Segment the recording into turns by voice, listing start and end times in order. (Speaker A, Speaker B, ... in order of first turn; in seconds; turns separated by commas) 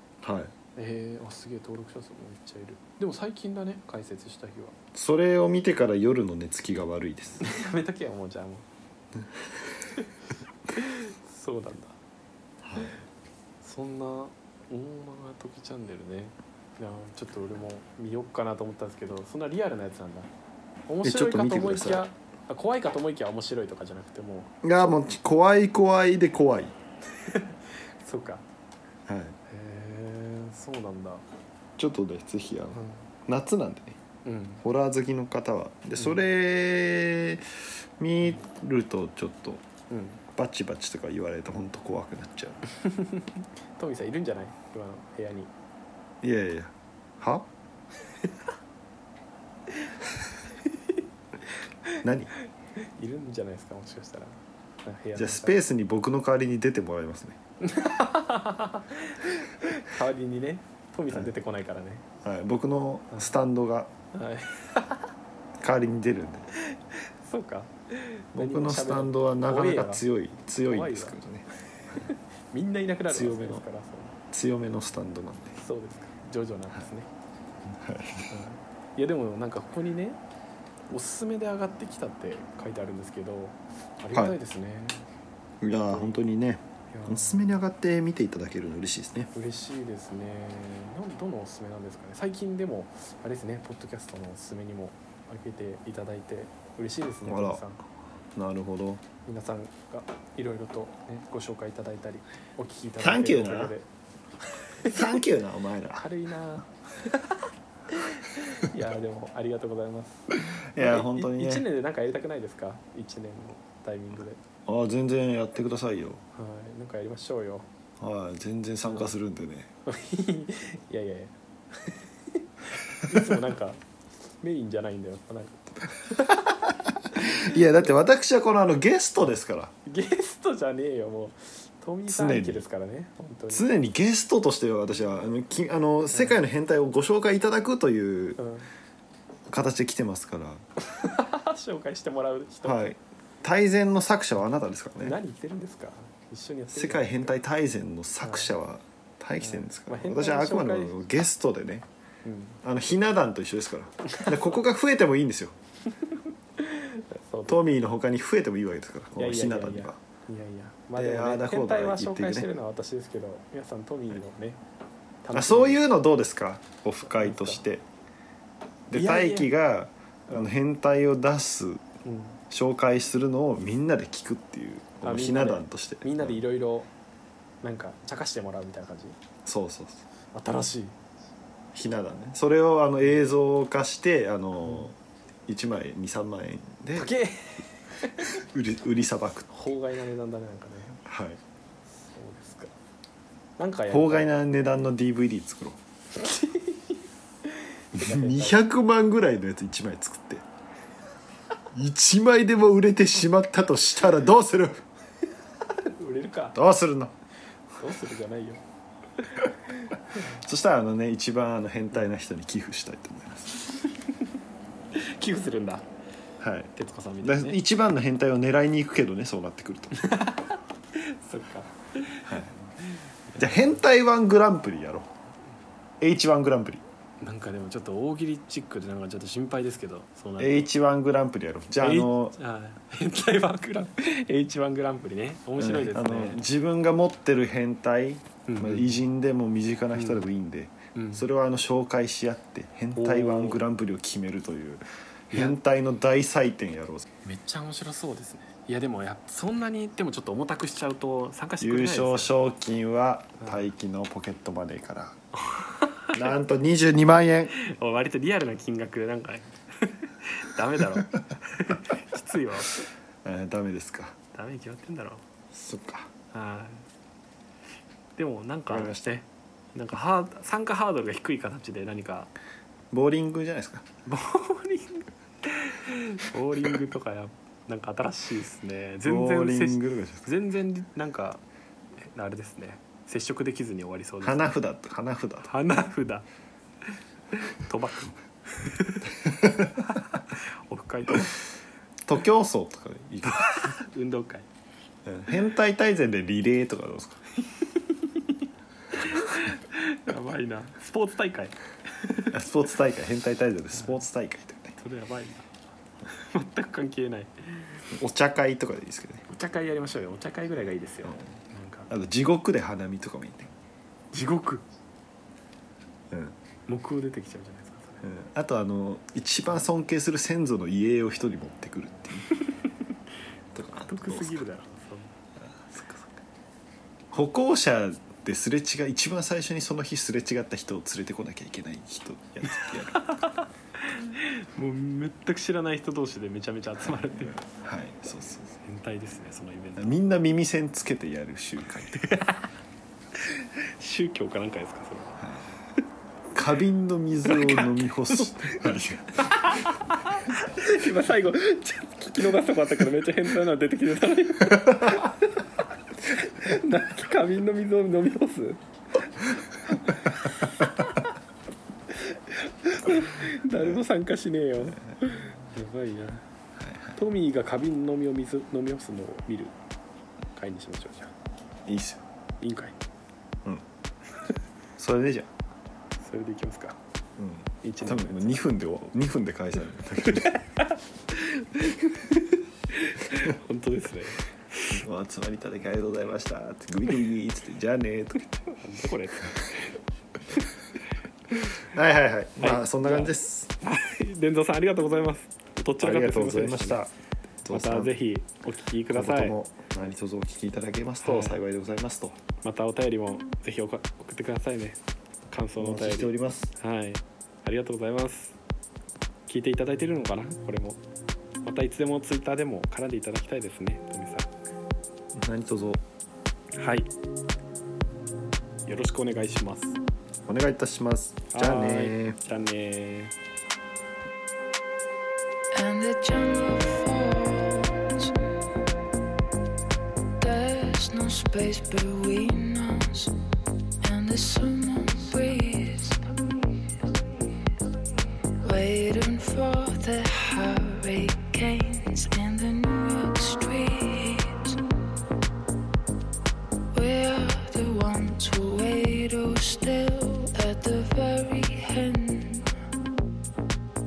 Speaker A: 0.2-0.5, Speaker B: 0.8-4.8, Speaker A: 4.9-7.5, Speaker B: 7.4-8.7, Speaker B: 10.7-12.0, Speaker A: 12.6-13.0, Speaker B: 13.6-20.3, Speaker B: 20.9-24.5, Speaker A: 21.0-22.1, Speaker A: 24.6-26.8, Speaker B: 27.1-28.4, Speaker A: 29.1-29.4, Speaker B: 29.5-31.2, Speaker A: 31.8-34.0, Speaker B: 32.7-33.0, Speaker B: 34.2-34.6, Speaker A: 34.6-39.6, Speaker B: 39.9-40.2, Speaker A: 40.3-42.6, Speaker B: 42.8-45.5, Speaker A: 46.2-47.5, Speaker B: 50.6-51.0, Speaker A: 52.0-52.3, Speaker B: 52.8-55.6, Speaker A: 55.1-57.4, Speaker B: 57.6-62.0, Speaker A: 62.2-63.9, Speaker B: 64.1-65.1, Speaker A: 65.6-66.5, Speaker B: 66.6-70.0, Speaker A: 68.3-72.1, Speaker B: 70.7-71.2, Speaker B: 71.9-74.2, Speaker A: 73.1-73.6, Speaker A: 74.3-75.5, Speaker B: 75.5-77.1, Speaker A: 77.7-78.3, Speaker B: 78.3-80.2, Speaker B: 80.9-85.1, Speaker A: 85.6-89.3, Speaker B: 85.9-86.2, Speaker B: 86.9-87.6, Speaker B: 89.3-97.8, Speaker A: 97.2-97.6, Speaker A: 98.3-99.0, Speaker B: 99.2-103.9, Speaker A: 103.0-103.7, Speaker B: 104.5-105.1, Speaker A: 104.8-106.0, Speaker B: 106.0-114.4, Speaker A: 110.3-111.7, Speaker A: 114.7-116.2, Speaker B: 116.3-117.7, Speaker A: 118.0-119.7, Speaker B: 118.9-119.1, Speaker B: 119.9-123.8, Speaker B: 124.4-126.6, Speaker A: 127.1-129.7, Speaker B: 127.1-127.6, Speaker B: 129.9-133.7, Speaker A: 132.1-132.6, Speaker A: 133.5-138.4, Speaker B: 138.4-138.7, Speaker A: 139.5-140.6, Speaker B: 140.9-142.9, Speaker A: 142.6-145.2, Speaker B: 145.0-147.3, Speaker A: 146.7-151.9, Speaker B: 148.2-148.5, Speaker B: 149.4-150.9, Speaker B: 152.2-152.6, Speaker A: 152.6-155.6, Speaker B: 154.1-154.5, Speaker B: 156.1-157.6, Speaker A: 157.5-160.0, Speaker B: 159.2-164.6, Speaker A: 161.0-162.5, Speaker B: 165.2-165.8, Speaker A: 165.3-167.8, Speaker B: 167.1-167.6, Speaker A: 168.9-171.8, Speaker B: 168.9-169.5, Speaker B: 172.1-172.4, Speaker A: 172.5-176.4, Speaker B: 175.0-176.9, Speaker B: 177.6-179.2, Speaker A: 179.4-180.1, Speaker B: 180.3-181.0, Speaker A: 181.7-187.1, Speaker B: 186.9-188.4, Speaker A: 188.3-189.5, Speaker B: 189.5-191.0, Speaker A: 191.1-191.4, Speaker B: 192.0-192.7, Speaker B: 193.6-194.3, Speaker A: 193.9-195.8, Speaker B: 196.1-198.6, Speaker A: 197.9-200.4, Speaker A: 201.7-204.8, Speaker B: 205.6-206.6, Speaker A: 206.6-207.1, Speaker B: 207.8-208.6, Speaker B: 209.2-210.2, Speaker A: 210.2-213.8, Speaker B: 213.8-214.2, Speaker B: 214.9-215.9, Speaker A: 216.4-220.0, Speaker B: 216.8-217.6, Speaker B: 220.0-223.6, Speaker A: 222.3-222.5, Speaker A: 223.4-225.1, Speaker A: 226.0-226.8, Speaker B: 227.2-230.7, Speaker A: 230.4-232.4, Speaker B: 231.8-236.4, Speaker A: 235.6-244.8, Speaker B: 238.5-239.0, Speaker B: 240.0-240.2, Speaker B: 240.9-241.2, Speaker B: 242.9-243.6, Speaker B: 245.3-245.6, Speaker A: 245.3-247.1, Speaker B: 247.2-252.3, Speaker A: 251.6-255.2, Speaker B: 255.4-256.2, Speaker A: 256.1-257.5, Speaker B: 257.6-262.8, Speaker A: 263.2-264.2, Speaker B: 264.3-265.2, Speaker A: 265.5-266.1, Speaker B: 266.3-266.9, Speaker B: 268.2-272.3, Speaker A: 268.7-269.0, Speaker A: 272.9-273.9, Speaker B: 274.1-281.4, Speaker A: 279.1-280.3, Speaker B: 282.0-284.5, Speaker A: 284.2-285.5, Speaker B: 285.4-286.3, Speaker B: 287.3-291.4, Speaker A: 292.1-293.7, Speaker B: 293.3-294.5, Speaker A: 295.1-297.2, Speaker B: 297.4-302.3, Speaker A: 302.3-304.8, Speaker B: 304.8-305.5, Speaker B: 306.1-307.9, Speaker A: 307.9-309.2, Speaker B: 309.3-311.9, Speaker A: 311.9-313.5, Speaker B: 314.1-314.6, Speaker A: 316.1-316.4, Speaker B: 316.7-318.1, Speaker A: 318.0-322.3, Speaker A: 323.5-324.4, Speaker B: 323.9-325.1, Speaker A: 327.1-333.2, Speaker B: 332.6-337.4, Speaker A: 336.8-338.5, Speaker B: 338.6-340.0, Speaker A: 339.8-342.1, Speaker B: 341.9-342.5, Speaker B: 343.1-345.2, Speaker A: 346.3-349.6, Speaker B: 347.3-358.6, Speaker B: 359.7-360.9, Speaker B: 361.9-366.2, Speaker A: 363.5-363.8, Speaker A: 366.6-367.0, Speaker B: 367.0-369.6, Speaker B: 370.3-371.1, Speaker A: 371.7-372.0, Speaker B: 372.4-372.8, Speaker A: 374.8-375.3, Speaker B: 376.0-376.8, Speaker A: 377.2-380.3, Speaker B: 377.6-378.4, Speaker B: 380.1-384.8, Speaker A: 384.7-388.4, Speaker B: 388.5-389.8, Speaker B: 391.3-391.6, Speaker A: 391.6-393.5, Speaker B: 392.4-396.8, Speaker A: 395.8-396.9, Speaker A: 397.4-398.0, Speaker B: 397.5-399.4, Speaker A: 398.9-402.2, Speaker B: 401.0-401.4, Speaker B: 402.4-408.4, Speaker A: 405.6-406.5, Speaker B: 409.3-410.8, Speaker B: 411.4-414.3, Speaker A: 415.1-415.8, Speaker B: 416.6-416.9, Speaker B: 418.7-419.8, Speaker A: 420.3-422.2, Speaker B: 421.3-423.1, Speaker C: 425.5-428.1, Speaker C: 430.2-433.1, Speaker C: 433.8-437.5, Speaker C: 438.4-444.6, Speaker C: 446.7-452.6